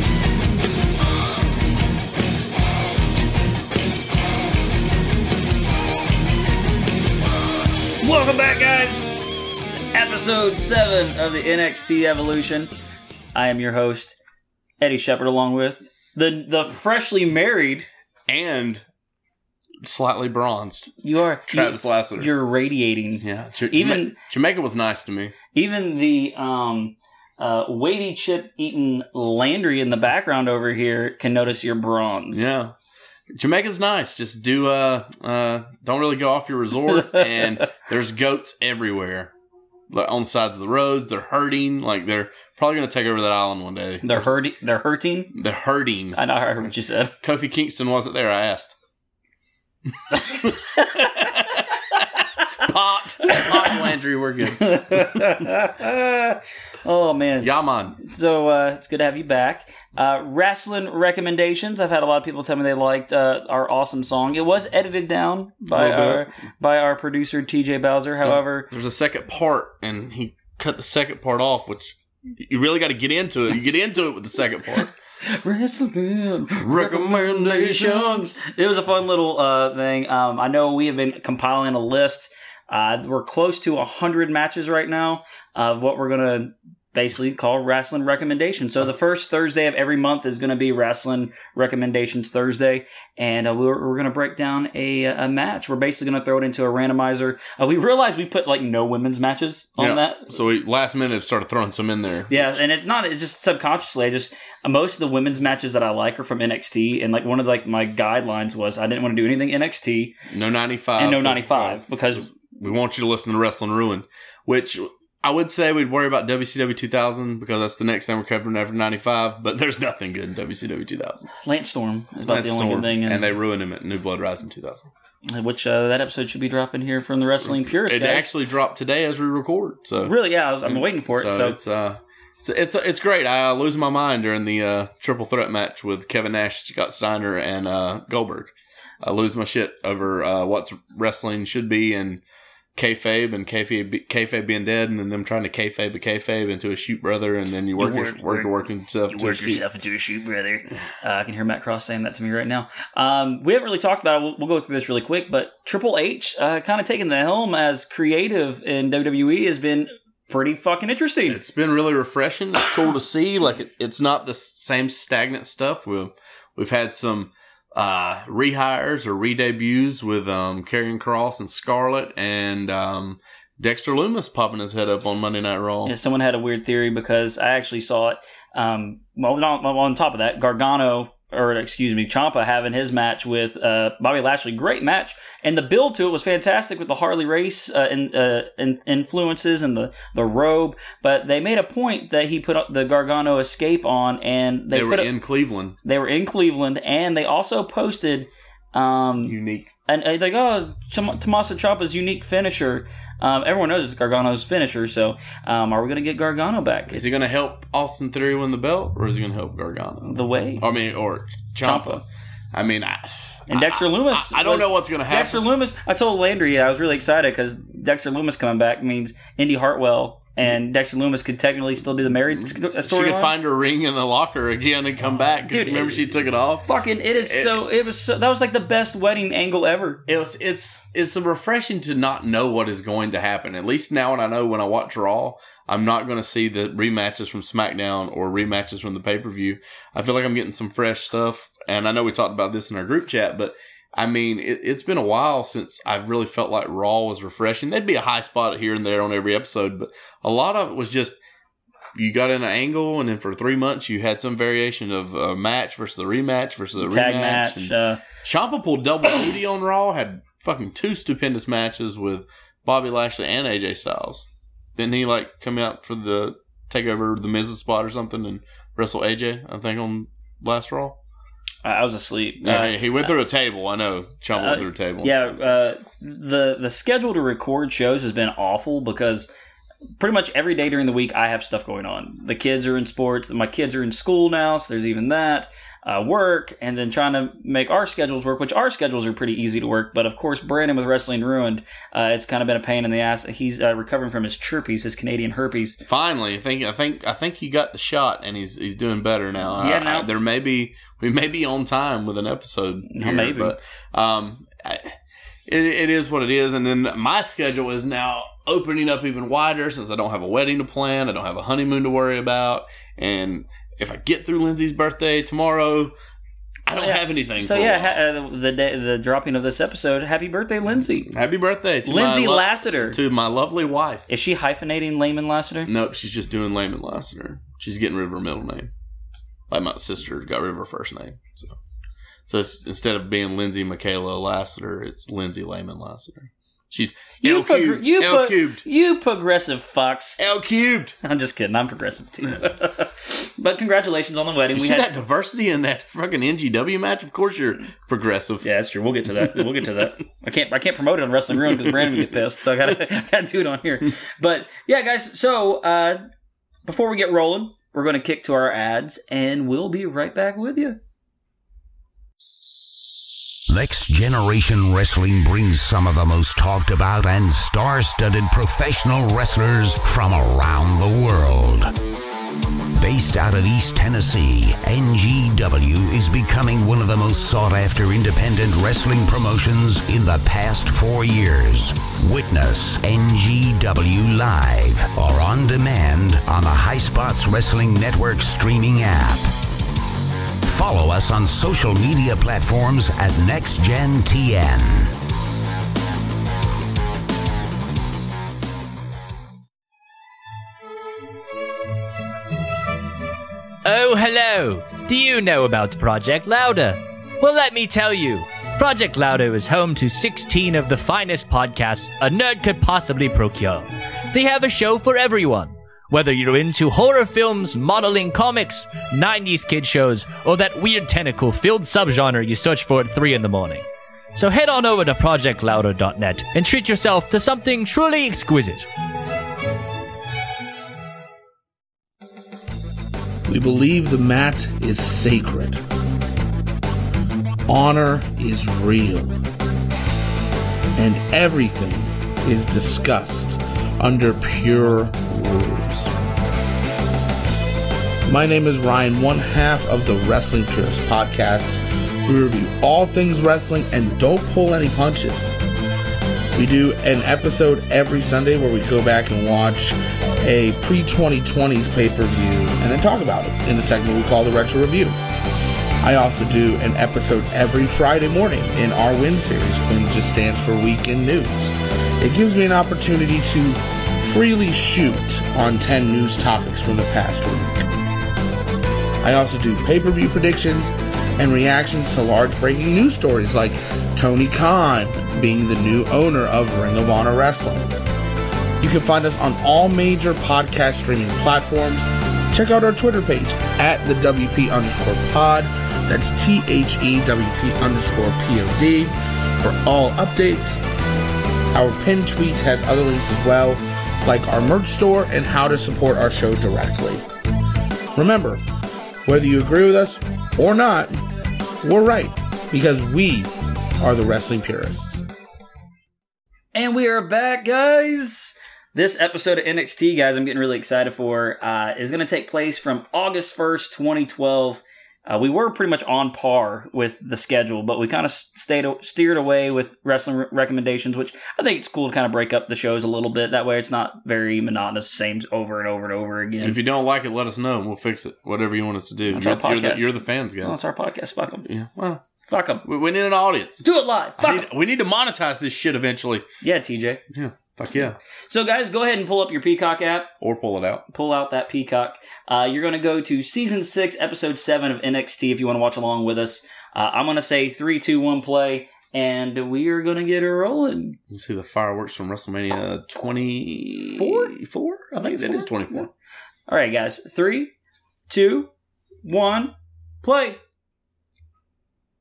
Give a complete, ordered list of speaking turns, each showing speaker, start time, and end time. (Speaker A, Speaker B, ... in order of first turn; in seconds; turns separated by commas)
Speaker A: 8.0-9.2, Speaker A: 9.9-12.7, Speaker A: 13.3-14.2, Speaker A: 14.8-17.9, Speaker B: 18.3-18.8, Speaker B: 19.8-20.9, Speaker A: 21.0-24.2, Speaker B: 21.5-22.3, Speaker B: 23.2-25.4, Speaker A: 25.5-32.5, Speaker B: 32.3-32.7, Speaker B: 33.3-39.3, Speaker B: 39.9-44.2, Speaker A: 44.0-45.3, Speaker B: 45.4-46.7, Speaker A: 46.1-47.1, Speaker B: 47.2-48.8, Speaker B: 50.1-51.6, Speaker B: 52.6-55.3, Speaker A: 53.3-53.8, Speaker A: 54.6-68.7, Speaker B: 57.4-58.0, Speaker B: 65.7-66.3, Speaker B: 68.2-74.9, Speaker A: 75.2-100.5, Speaker B: 76.6-78.3, Speaker B: 99.8-102.6, Speaker A: 102.3-110.2, Speaker B: 110.3-121.3, Speaker A: 111.0-112.3, Speaker A: 121.4-123.3, Speaker B: 122.2-124.9, Speaker A: 125.3-128.3, Speaker B: 127.4-142.2, Speaker A: 130.0-131.6, Speaker B: 142.8-149.6, Speaker A: 147.8-161.4, Speaker B: 161.3-175.9, Speaker A: 175.9-195.1, Speaker B: 194.7-195.8, Speaker A: 195.8-199.3, Speaker B: 199.2-199.7, Speaker A: 199.9-207.1, Speaker B: 206.9-215.4, Speaker A: 210.0-210.7, Speaker A: 211.6-212.0, Speaker A: 213.5-223.3, Speaker B: 222.4-226.7, Speaker A: 225.5-226.1, Speaker A: 226.6-230.0, Speaker B: 227.2-227.6, Speaker B: 230.1-251.2, Speaker B: 251.9-264.3, Speaker A: 256.8-258.0, Speaker B: 264.8-271.0, Speaker A: 271.6-273.1, Speaker B: 272.4-275.5, Speaker A: 274.4-279.3, Speaker A: 280.0-295.8, Speaker B: 295.8-304.9, Speaker A: 299.6-300.1, Speaker A: 302.9-303.5, Speaker B: 305.5-315.9, Speaker B: 316.7-317.9, Speaker A: 316.7-321.1, Speaker B: 321.1-324.1, Speaker A: 321.9-323.0, Speaker A: 324.1-325.7, Speaker B: 325.7-328.7, Speaker B: 329.5-331.6, Speaker B: 332.3-338.6, Speaker A: 337.2-340.2, Speaker B: 340.2-341.0, Speaker A: 341.0-344.9, Speaker B: 344.5-348.5, Speaker A: 348.4-356.0, Speaker A: 356.6-360.8, Speaker C: 363.5-371.7, Speaker C: 372.8-389.3, Speaker C: 390.4-394.9, Speaker D: 403.6-423.6, Speaker D: 424.1-428.7, Speaker E: 433.3-435.6, Speaker E: 437.5-439.2, Speaker E: 440.8-445.9, Speaker E: 448.1-455.4, Speaker E: 456.3-465.0, Speaker E: 465.8-477.7, Speaker E: 479.0-487.8, Speaker E: 488.6-500.6, Speaker E: 501.5-507.1, Speaker E: 507.9-508.4, Speaker E: 509.1-511.0, Speaker E: 511.6-515.0, Speaker A: 516.5-536.6, Speaker B: 536.4-540.6, Speaker A: 539.1-539.9, Speaker A: 540.4-541.5, Speaker B: 541.5-542.0, Speaker A: 542.3-542.6, Speaker B: 542.6-543.6, Speaker A: 543.6-544.5, Speaker B: 544.2-546.3, Speaker A: 546.4-547.0, Speaker B: 547.1-548.0, Speaker A: 548.3-550.1, Speaker B: 550.2-550.8, Speaker A: 550.9-561.0, Speaker B: 561.1-565.9, Speaker A: 563.9-564.4, Speaker A: 565.0-565.9, Speaker A: 566.5-567.5, Speaker A: 568.1-568.5, Speaker A: 569.0-570.4